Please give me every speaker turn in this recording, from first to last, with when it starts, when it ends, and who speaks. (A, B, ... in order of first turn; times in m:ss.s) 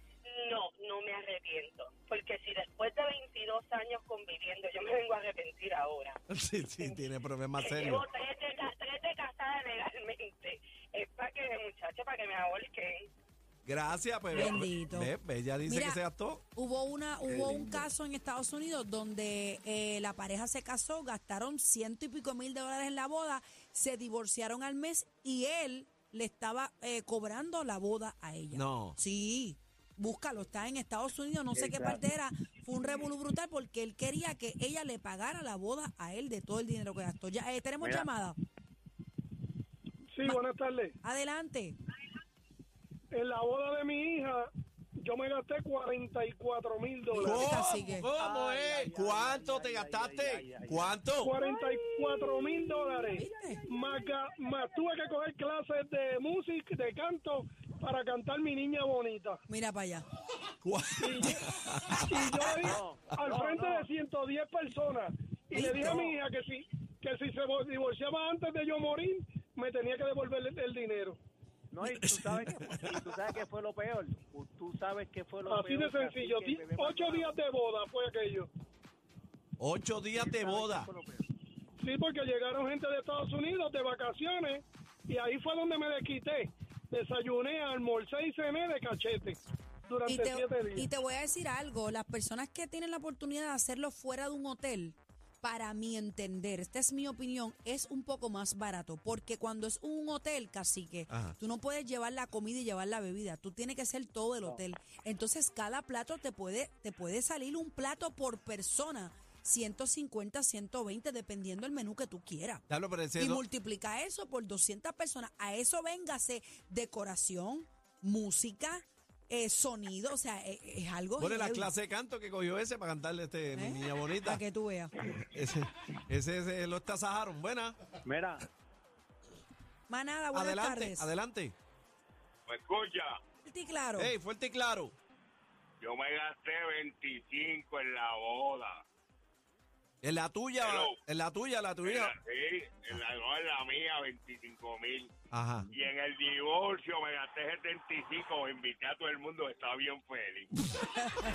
0:00.3-0:06.2 A
0:06.3-0:08.0 B
0:06.8-0:07.0 A
0:07.6-0:13.0 A
0:13.6-0:16.4 B
0:14.3-0:16.0 C
0:16.6-0:38.4 C
0:17.3-0:17.8 B
0:28.5-0:29.0 B
0:31.5-0:32.0 D
0:37.8-0:38.1 D
0:40.1-0:41.0 E
0:41.0-0:41.8 C
0:43.1-0:44.5 E
0:45.0-0:47.5 E
0:47.2-0:51.4 B
0:47.2-0:48.1 C
0:48.2-0:51.0 D
0:51.2-0:59.4 E
0:53.1-0:53.6 C
0:59.5-1:00.1 C
1:00.6-1:02.8 B
1:01.0-1:01.4 E
1:02.1-1:11.2 E
1:02.6-1:03.9 D
1:05.5-1:06.1 C
1:05.8-1:06.2 D
1:11.7-1:17.3 D
1:11.9-1:13.1 B
1:15.4-1:18.5 E
1:19.6-1:20.9 B
1:20.2-1:21.3 D
1:21.8-1:29.4 E
1:29.9-1:30.9 E
1:30.0-1:52.6 C
1:41.1-1:41.4 B
1:52.7-1:53.4 B
1:53.2-2:01.7 C
2:01.2-2:04.4 B
2:03.5-2:04.9 C
2:05.1-2:07.8 B
2:08.0-2:08.5 D
2:09.9-2:11.1 C
2:10.3-2:11.6 B
2:12.5-2:13.2 F
2:13.4-2:14.1 C
2:14.0-2:14.9 B
2:15.8-2:18.8 F
2:20.0-2:22.2 B
2:20.6-2:21.0 F
2:21.8-2:25.1 F
2:25.3-2:25.7 B
2:25.7-2:30.5 F